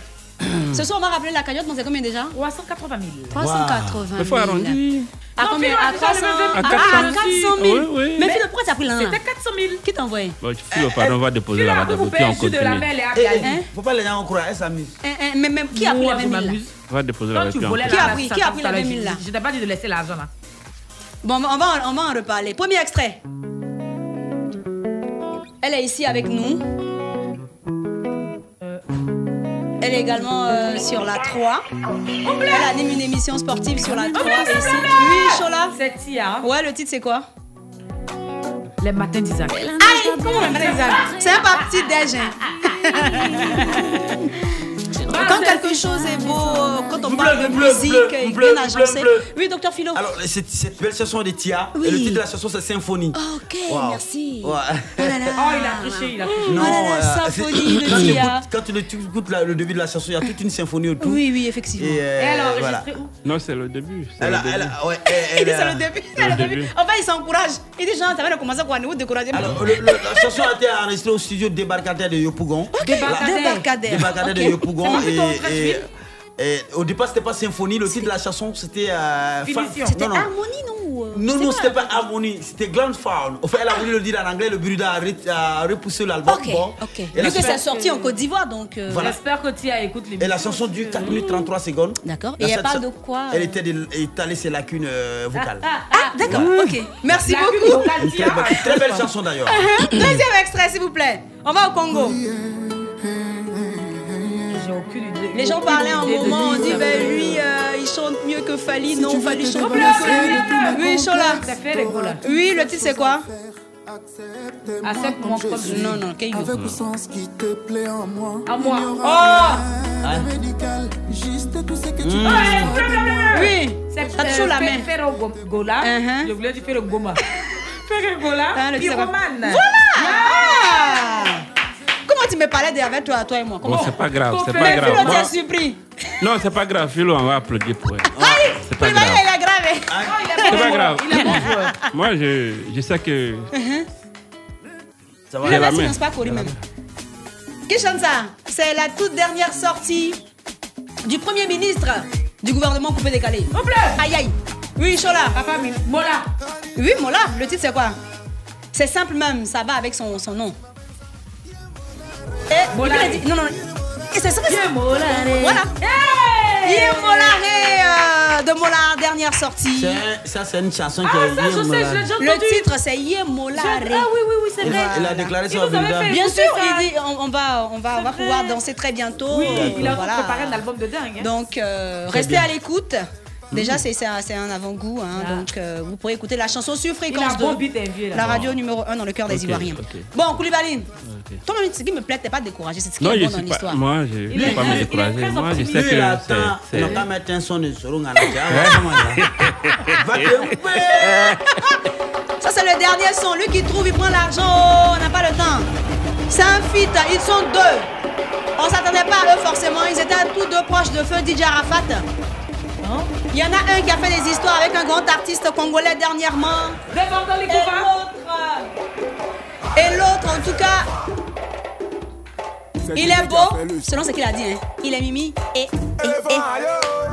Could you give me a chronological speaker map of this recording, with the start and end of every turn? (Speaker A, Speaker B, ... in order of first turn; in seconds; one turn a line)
Speaker A: 0.7-2.3
Speaker B: 2.3-3.4
Speaker A: 3.3-4.8
Speaker C: 3.4-4.1
Speaker D: 4.2-5.1
Speaker B: 5.4-7.6
Speaker A: 5.4-9.2
Speaker D: 6.5-8.3
Speaker B: 8.9-9.8
Speaker A: 9.8-10.4
Speaker D: 10.4-12.9
Speaker C: 10.8-11.1
Speaker B: 11.5-13.6
Speaker C: 13.1-15.0
Speaker A: 15.0-16.6
Speaker B: 15.7-16.8
Speaker D: 16.9-18.2
Speaker B: 17.3-20.3
Speaker A: 17.9-19.2
Speaker A: 21.2-23.2
Speaker A: 25.6-26.6
Speaker A: 29.8-31.6
Speaker B: 32.2-32.7
Speaker A: 32.5-35.8
Speaker B: 33.9-36.5
Speaker A: 36.4-37.2
Speaker B: 38.8-41.8
Speaker A: 39.8-44.2
Speaker B: 43.3-43.7
Speaker B: 45.0-46.5
Speaker A: 45.1-50.0
Speaker C: 47.0-49.3
Speaker C: 49.9-55.4
Speaker A: 51.8-52.2
Speaker A: 53.1-58.5
Speaker B: 55.4-56.9
Speaker C: 56.4-61.2
Speaker A: 61.0-62.0
Speaker C: 61.8-62.9
Speaker B: 62.1-63.1
Speaker D: 63.2-64.7
Speaker C: 64.2-65.9
Speaker A: 65.1-70.2
Speaker D: 66.2-66.7
Speaker C: 69.3-75.9
Speaker B: 72.8-73.7
Speaker A: 72.8-75.0
Speaker B: 74.8-75.8
Speaker C: 76.4-80.3
Speaker B: 79.4-80.0
Speaker A: 79.9-82.0
Speaker C: 81.1-87.6
Speaker A: 86.2-89.1
Speaker B: 87.2-88.1
Speaker C: 88.9-89.2
Speaker B: 89.0-91.3
Speaker C: 90.2-95.7
Speaker A: 92.0-93.6
Speaker B: 95.3-96.5
Speaker A: 95.9-97.9
Speaker C: 96.2-96.5
Speaker B: 97.2-99.1
Speaker C: 97.9-99.7
Speaker A: 99.5-102.2
Speaker B: 104.5-107.4
Speaker A: 105.3-111.5
Speaker E: 109.0-113.5
Speaker B: 109.5-112.2
Speaker A: 112.2-113.2
Speaker E: 114.5-123.5
Speaker B: 114.8-116.0
Speaker A: 115.6-116.5
Speaker D: 116.5-116.8
Speaker B: 118.5-119.6
Speaker C: 120.0-120.3
Speaker C: 122.0-122.7
Speaker B: 122.2-127.2
Speaker A: 123.3-124.9
Speaker A: 125.8-126.3
Speaker B: 127.8-131.0
Speaker A: 128.5-131.4
Speaker A: 132.1-134.0
Speaker D: 133.6-135.3
Speaker B: 134.2-135.3
Speaker A: 134.6-135.8
Speaker D: 136.2-138.1
Speaker C: 138.1-138.6
Speaker A: 138.2-141.9
Speaker D: 138.6-139.2
Speaker C: 139.9-140.2
Speaker B: 140.0-141.7
Speaker D: 140.5-143.5
Speaker A: 143.5-143.8
Speaker C: 145.3-145.8
Speaker A: 145.4-146.5
Speaker D: 145.4-146.5
Speaker A: 147.7-150.2
Speaker A: 151.0-155.4
Speaker B: 153.5-154.0
Speaker B: 155.3-156.3
Speaker A: 156.8-157.9
Speaker A: 158.7-160.6
Speaker A: 162.5-163.6
Speaker B: 162.7-163.2
Speaker A: 164.1-164.6
Speaker B: 164.4-167.8
Speaker A: 165.3-165.7
Speaker A: 166.6-170.0
Speaker C: 169.7-172.2
Speaker B: 171.0-172.7
Speaker A: 172.2-174.1
Speaker B: 173.5-176.9
Speaker C: 174.6-176.1
Speaker A: 174.6-175.3
Speaker A: 176.1-180.6
Speaker B: 177.9-178.6
Speaker B: 179.3-181.3
Speaker C: 179.4-180.0
Speaker A: 181.2-187.6
Speaker C: 182.1-182.5
Speaker B: 185.1-185.5
Speaker B: 187.1-188.3
Speaker A: 188.1-190.9
Speaker D: 188.2-188.5
Speaker D: 189.3-190.1
Speaker D: 191.0-191.4
Speaker A: 191.4-193.8
Speaker D: 193.0-197.0
Speaker B: 194.3-196.0
Speaker C: 194.3-194.9
Speaker C: 195.7-199.3
Speaker D: 198.5-200.3
Speaker C: 199.9-201.4
Speaker A: 202.4-205.7
Speaker A: 206.3-207.9
Speaker A: 208.6-212.1
Speaker B: 212.8-213.1
Speaker A: 213.3-216.8
Speaker B: 216.9-217.9
Speaker A: 217.5-218.7
Speaker A: 219.7-220.9
Speaker A: 222.9-226.5
Speaker E: 226.0-226.9